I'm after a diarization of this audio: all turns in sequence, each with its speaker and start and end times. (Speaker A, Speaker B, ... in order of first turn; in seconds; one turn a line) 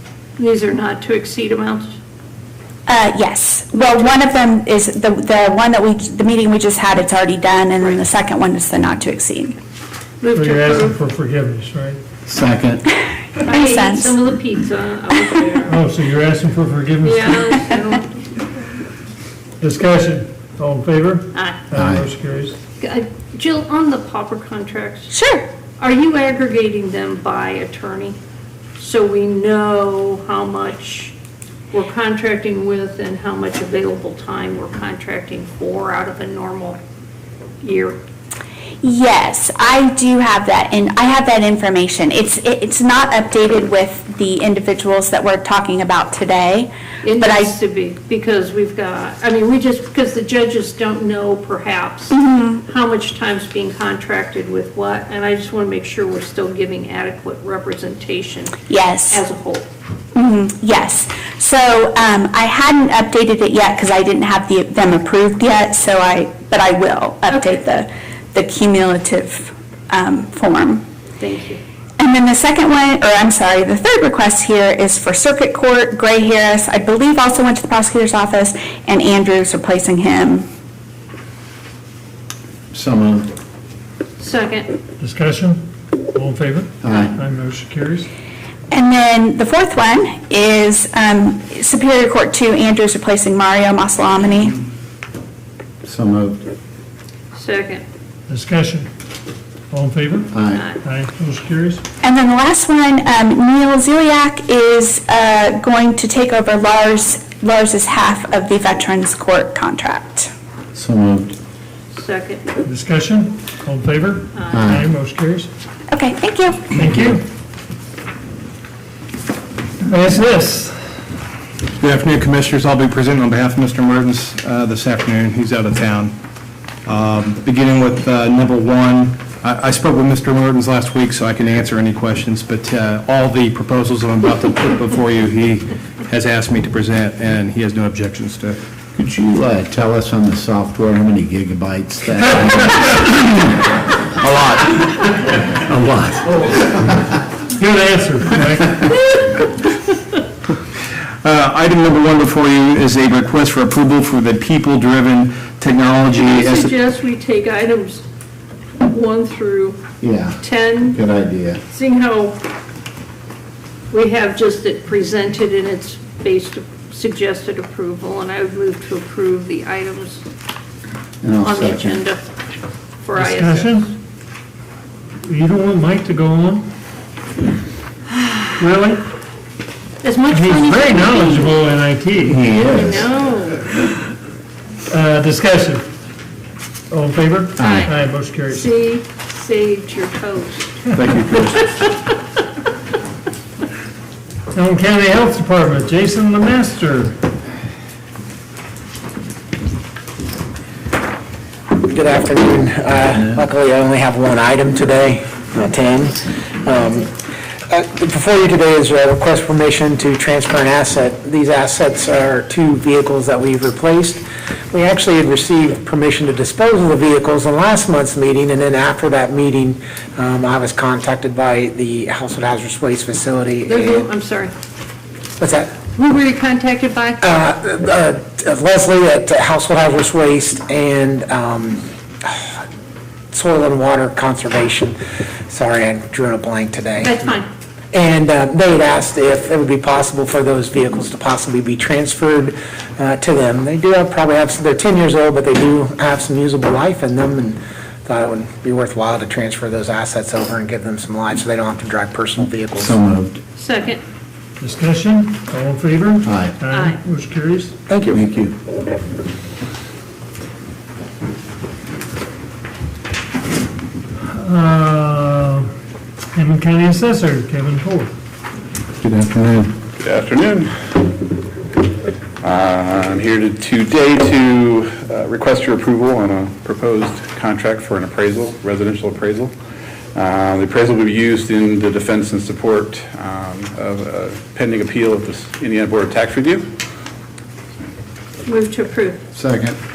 Speaker A: 0.4-1.9
Speaker B: 2.9-9.5
Speaker A: 10.2-10.9
Speaker C: 10.3-12.0
Speaker D: 12.2-12.8
Speaker A: 13.4-15.8
Speaker B: 13.5-14.2
Speaker C: 15.7-17.6
Speaker A: 17.0-18.2
Speaker C: 19.6-22.6
Speaker A: 21.3-21.6
Speaker D: 21.7-22.1
Speaker A: 22.8-25.1
Speaker B: 25.1-25.4
Speaker A: 25.8-28.1
Speaker A: 28.8-31.1
Speaker A: 31.7-36.8
Speaker A: 37.6-38.0
Speaker B: 38.8-46.7
Speaker A: 47.0-52.1
Speaker B: 47.2-47.5
Speaker B: 52.1-52.6
Speaker A: 52.6-59.7
Speaker B: 58.7-59.2
Speaker B: 60.1-70.8
Speaker A: 71.2-71.6
Speaker B: 72.0-80.5
Speaker D: 82.7-83.3
Speaker A: 84.2-84.7
Speaker C: 85.0-85.6
Speaker C: 86.1-88.1
Speaker D: 86.8-87.1
Speaker B: 88.7-94.6
Speaker D: 95.8-96.4
Speaker A: 97.3-97.8
Speaker C: 98.3-98.9
Speaker C: 99.7-101.8
Speaker D: 100.3-100.6
Speaker A: 100.5-100.8
Speaker B: 102.0-110.3
Speaker D: 110.7-111.3
Speaker A: 111.9-112.5
Speaker C: 112.6-115.5
Speaker A: 114.3-114.6
Speaker D: 114.5-114.8
Speaker B: 115.9-116.8
Speaker C: 116.7-117.2
Speaker C: 119.8-120.8
Speaker E: 121.8-126.1
Speaker E: 126.8-138.6
Speaker D: 138.9-143.6
Speaker D: 144.2-146.9
Speaker C: 147.6-148.9
Speaker E: 151.2-156.7
Speaker A: 156.3-158.0
Speaker A: 158.9-159.8
Speaker D: 160.0-161.6
Speaker A: 160.4-160.9
Speaker A: 161.7-162.4
Speaker A: 163.9-170.2
Speaker D: 171.2-172.0
Speaker A: 171.4-172.2
Speaker A: 173.0-173.7
Speaker C: 173.1-173.9
Speaker C: 175.2-176.7
Speaker C: 178.6-179.0
Speaker A: 180.0-181.3
Speaker C: 180.3-182.4
Speaker D: 182.3-183.1
Speaker A: 182.7-183.7
Speaker C: 184.9-185.9
Speaker C: 186.9-188.7
Speaker D: 187.6-187.8
Speaker A: 187.6-187.9
Speaker A: 188.6-190.7
Speaker E: 190.9-191.7
Speaker C: 194.5-197.2
Speaker F: 201.8-207.1
Speaker F: 207.7-224.1
Speaker A: 223.7-224.5
Speaker F: 225.4-225.7
Speaker A: 226.0-227.2
Speaker F: 227.2-232.6
Speaker F: 233.3-234.9
Speaker F: 235.5-237.3
Speaker A: 237.0-237.4
Speaker F: 237.9-252.9
Speaker D: 252.7-253.4
Speaker A: 253.6-254.0
Speaker C: 254.6-257.7
Speaker D: 256.2-256.5
Speaker A: 256.7-257.0
Speaker F: 257.9-258.2
Speaker D: 258.1-258.5
Speaker C: 264.2-265.7
Speaker C: 266.3-268.1
Speaker D: 269.0-269.7
Speaker G: 270.1-270.7
Speaker G: 272.4-279.5
Speaker G: 280.1-286.6
Speaker A: 288.4-289.2
Speaker D: 289.3-289.8